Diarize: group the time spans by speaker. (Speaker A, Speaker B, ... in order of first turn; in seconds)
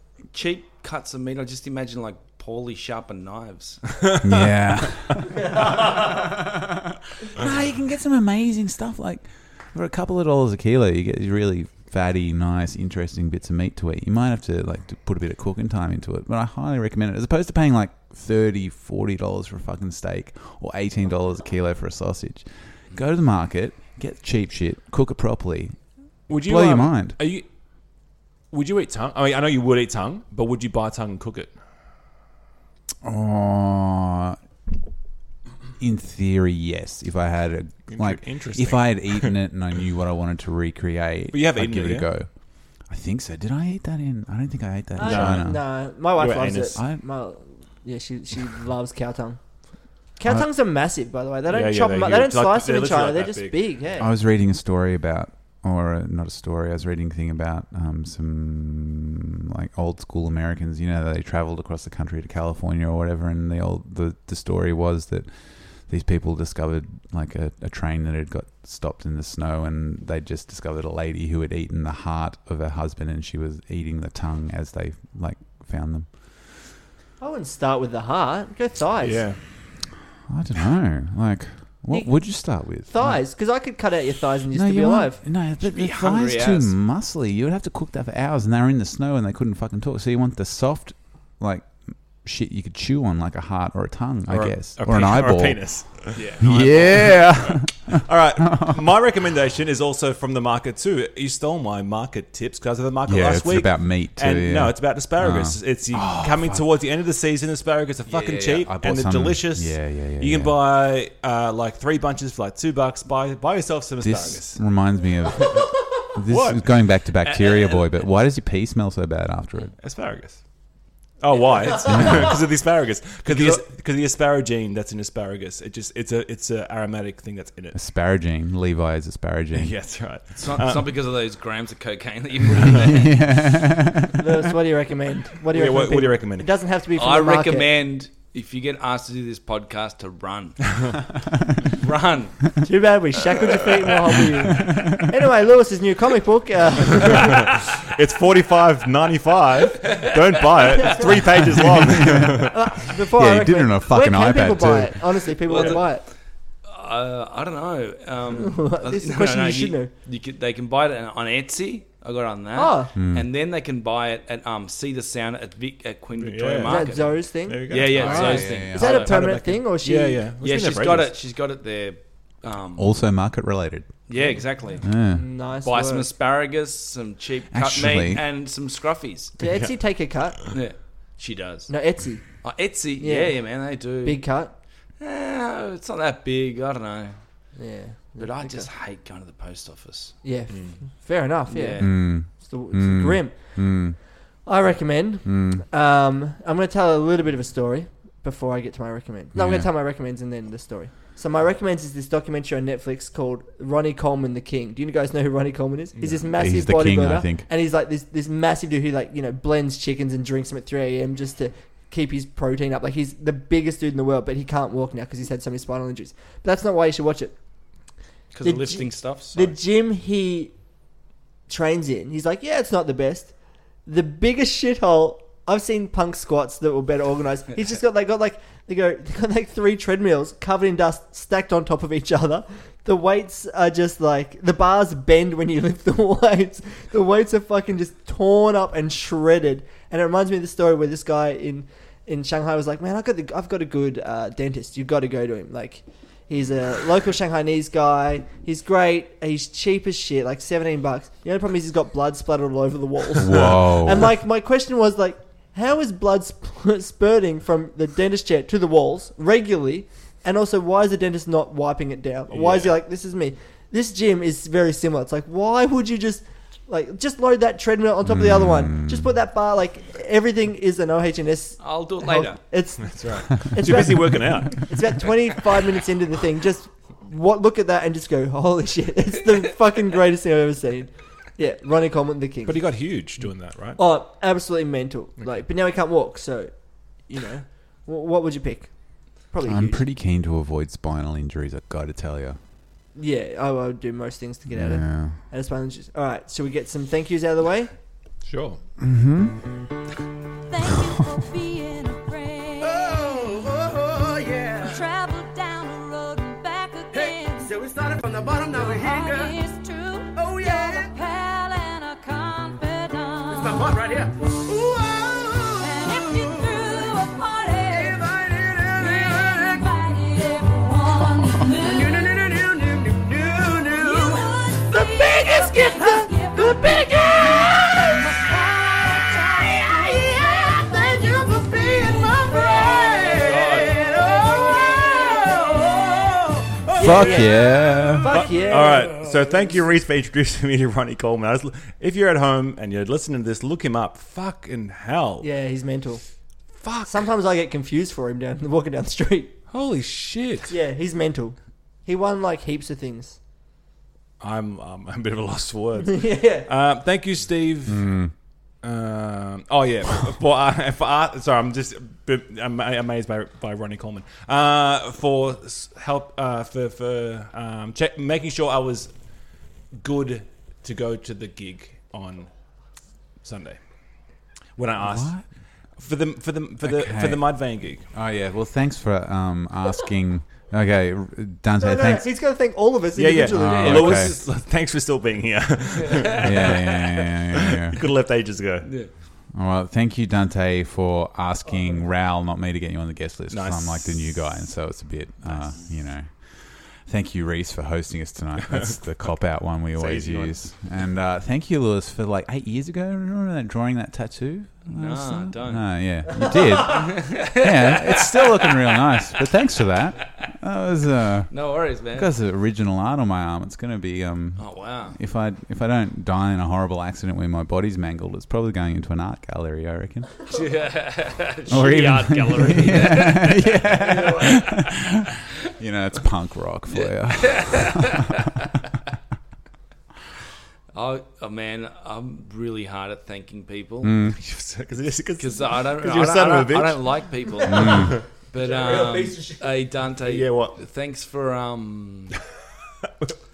Speaker A: 0.3-3.9, 85.6-86.7, 96.1-97.0, 117.2-118.0, 130.4-133.2, 136.9-140.8, 141.7-142.6, 149.8-151.0, 155.4-156.0, 156.7-169.4, 170.4-172.9, 174.1-174.8, 175.6-179.3, 180.5-181.8, 182.4-184.3, 185.0-187.2, 188.2-190.1, 191.5-192.0, 218.3-219.6, 271.6-272.4, 332.6-333.7, 383.6-384.2, 385.8-386.7, 388.6-388.9, 404.7-405.9, 406.6-409.2, 411.3-412.1, 414.4-415.0, 420.3-424.7, 426.7-428.3, 430.7-433.9, 435.2-442.2
Speaker B: 4.2-27.2, 33.0-34.4, 35.8-42.3, 42.8-45.6, 46.7-47.0, 54.0-76.1, 80.3-83.2, 84.5-98.9, 103.0-106.8, 108.0-110.6, 114.0-119.7, 121.8-122.4, 123.3-123.6, 127.7-129.7, 132.8-134.3, 144.6-144.9, 151.5-152.5, 153.1-155.1, 162.9-163.3, 167.9-169.0, 172.8-173.9, 174.8-175.2, 177.5-178.2, 191.8-194.0, 195.2-195.6, 199.3-199.7, 206.3-207.4, 253.2-254.1, 268.0-269.1, 289.4-292.4, 294.5-295.2, 298.8-299.5, 336.7-338.2, 357.6-358.1, 374.8-375.2, 376.6-382.1, 383.3-384.2, 386.2-387.8, 389.3-420.3, 421.4-428.0, 433.8-434.2, 437.5-437.9
Speaker C: 26.3-27.4, 28.5-31.5, 37.9-39.3, 41.3-42.1, 45.0-46.8, 51.5-53.7, 79.0-79.4, 94.3-114.6, 115.4-115.7, 116.3-116.7, 119.8-120.4, 121.2-127.8, 129.5-130.9, 132.5-132.8, 135.5-136.5, 147.5-152.6, 166.2-171.1, 174.1-174.4, 179.4-179.7, 190.5-190.8, 205.9-206.3, 253.2-253.6, 262.3-262.7, 272.8-274.8, 282.4-283.8, 298.2-298.6, 336.8-337.1, 338.1-345.3, 346.5-347.0, 349.5-350.5, 354.2-358.1, 358.6-372.3, 373.2-373.6, 374.5-377.8, 382.9-386.8, 387.3-388.7, 393.3-394.1, 398.5-398.8, 399.7-400.4, 434.1-436.9, 437.5-438.0, 438.7-439.0, 440.0-440.6
Speaker D: 45.0-49.4, 50.1-54.1, 77.2-79.2, 81.9-85.2, 134.2-137.7, 142.6-147.5, 152.4-156.0, 158.3-159.9, 162.5-162.9, 166.6-170.2, 175.1-176.1, 179.4-180.4, 181.7-182.4, 182.9-184.5, 187.6-188.7, 190.2-217.3, 218.4-220.5, 221.5-282.7, 283.8-289.8, 292.9-297.7, 336.7-338.9, 345.2-346.0, 346.8-349.3, 350.5-353.2, 355.9-356.5, 381.6-384.1, 438.4-439.4
Speaker E: 300.5-303.0, 304.7-307.6, 308.6-313.6, 315.6-318.0, 318.7-322.1, 323.7-333.6, 334.8-335.3
Speaker F: 302.6-304.9, 306.9-309.4, 310.1-310.9, 313.3-316.9, 317.7-319.6, 321.6-328.2, 329.4-336.6